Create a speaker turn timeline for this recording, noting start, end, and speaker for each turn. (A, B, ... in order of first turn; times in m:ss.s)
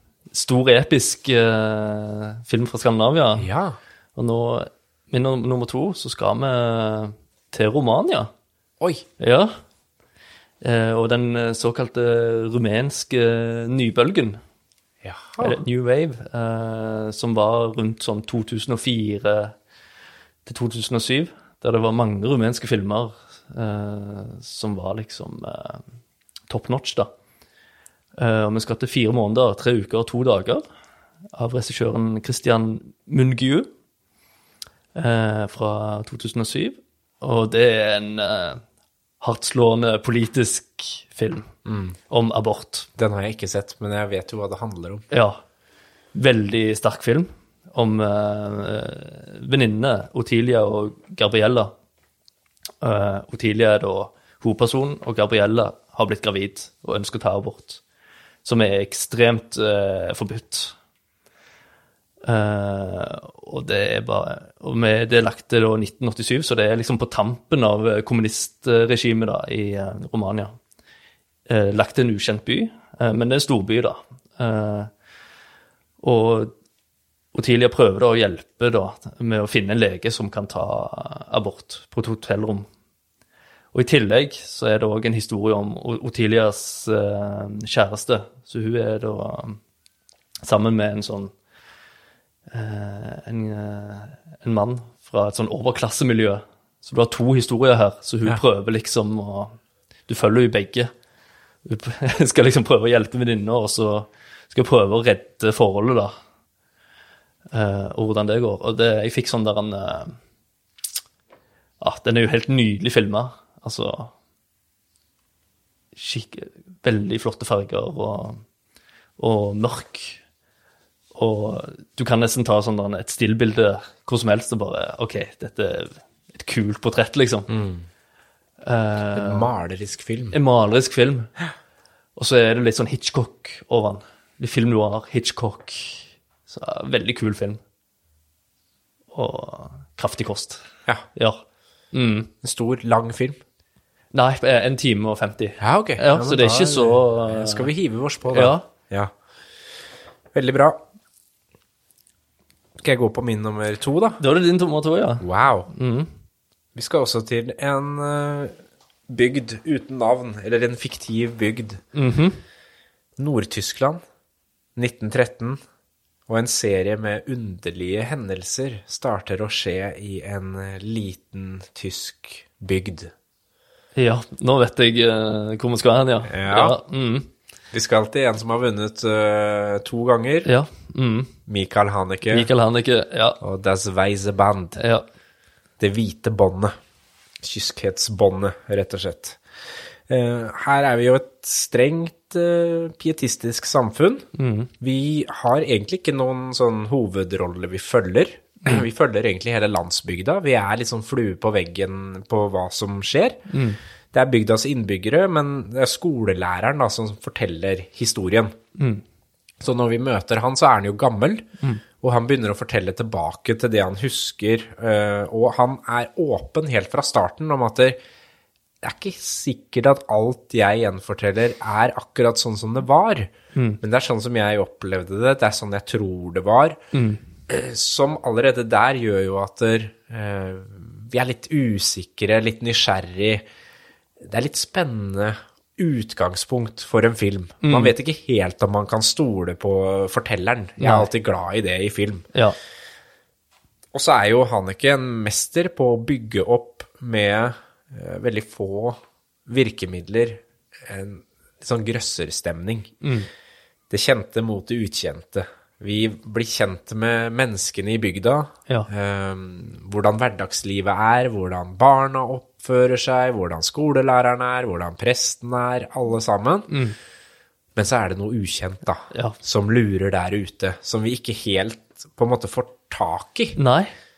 0:00.3-0:03.5 A
0:03.4-0:03.8 B
0:04.2-0:08.3 A
0:08.8-0:09.0 B
0:09.2-0:09.5 A
0:10.6-0:14.4 A
0:15.0-0:15.6 B
0:15.4-0:19.6 A
0:20.4-0:25.8 A
0:26.5-0:27.1 A
0:28.2-0:30.6 A
0:31.3-0:33.7 A
0:35.0-0:38.6 A
0:39.2-0:41.5 A
0:41.7-0:42.0 B
0:42.1-0:42.9 A
0:43.0-0:45.0 B
0:45.1-0:45.4 A
0:46.1-0:51.7 A
0:52.8-0:57.8 A
0:58.4-1:00.8 A
1:02.2-1:10.6 A
1:11.5-1:14.9 A
1:16.0-1:16.5 A
1:17.3-1:22.7 A
1:23.7-1:29.6 A
1:30.4-1:31.3 A
1:32.5-1:40.9 A
1:41.6-1:46.1 A
1:47.5-1:50.2 A
1:51.8-1:54.1 A
1:56.0-1:58.4 A
1:59.2-2:00.2 A
2:01.2-2:07.5 A
2:07.5-2:07.9 B
2:08.6-2:09.5 A
2:09.1-2:10.4 B
2:10.3-2:11.3 A
2:12.2-2:17.6 A
2:19.1-2:20.6 A
2:21.2-2:21.4 A
2:21.9-2:22.3 A
2:22.4-2:23.4 B
2:24.1-2:27.7 A
2:25.6-2:29.1 B
2:28.3-2:28.7 A
2:30.3-2:30.8 B
2:32.8-2:34.2 B
2:34.2-2:36.1 A
2:35.2-2:35.7 B
2:36.8-2:41.8 B
2:41.9-2:42.4 A
2:43.2-2:44.0 B
2:44.8-2:45.6 B
2:46.3-2:53.1 B
2:54.0-2:57.3 A
2:56.3-2:56.8 B
2:57.7-3:00.5 B
3:00.4-3:01.3 A
3:01.5-3:02.5 B
3:02.3-3:03.4 A
3:03.4-3:04.8 B
3:04.8-3:05.0 A
3:05.8-3:06.7 B
3:07.4-3:09.4 B
3:10.1-3:14.3 B
3:14.4-3:14.7 A
3:14.8-3:23.5 B
3:23.5-3:23.8 A
3:24.1-3:28.6 B
3:28.8-3:29.0 A
3:29.6-3:31.5 B
3:32.0-3:38.0 B
3:38.8-3:46.8 B
3:43.6-3:43.8 A
3:46.9-3:47.2 A
3:47.5-3:53.4 B
3:54.2-4:02.3 B
3:57.6-3:57.9 A
4:00.8-4:01.1 A
4:03.9-4:12.9 B
4:13.0-4:13.3 A
4:13.9-4:26.7 B
4:26.7-4:27.0 A
4:27.8-4:33.6 B
4:33.6-4:33.9 A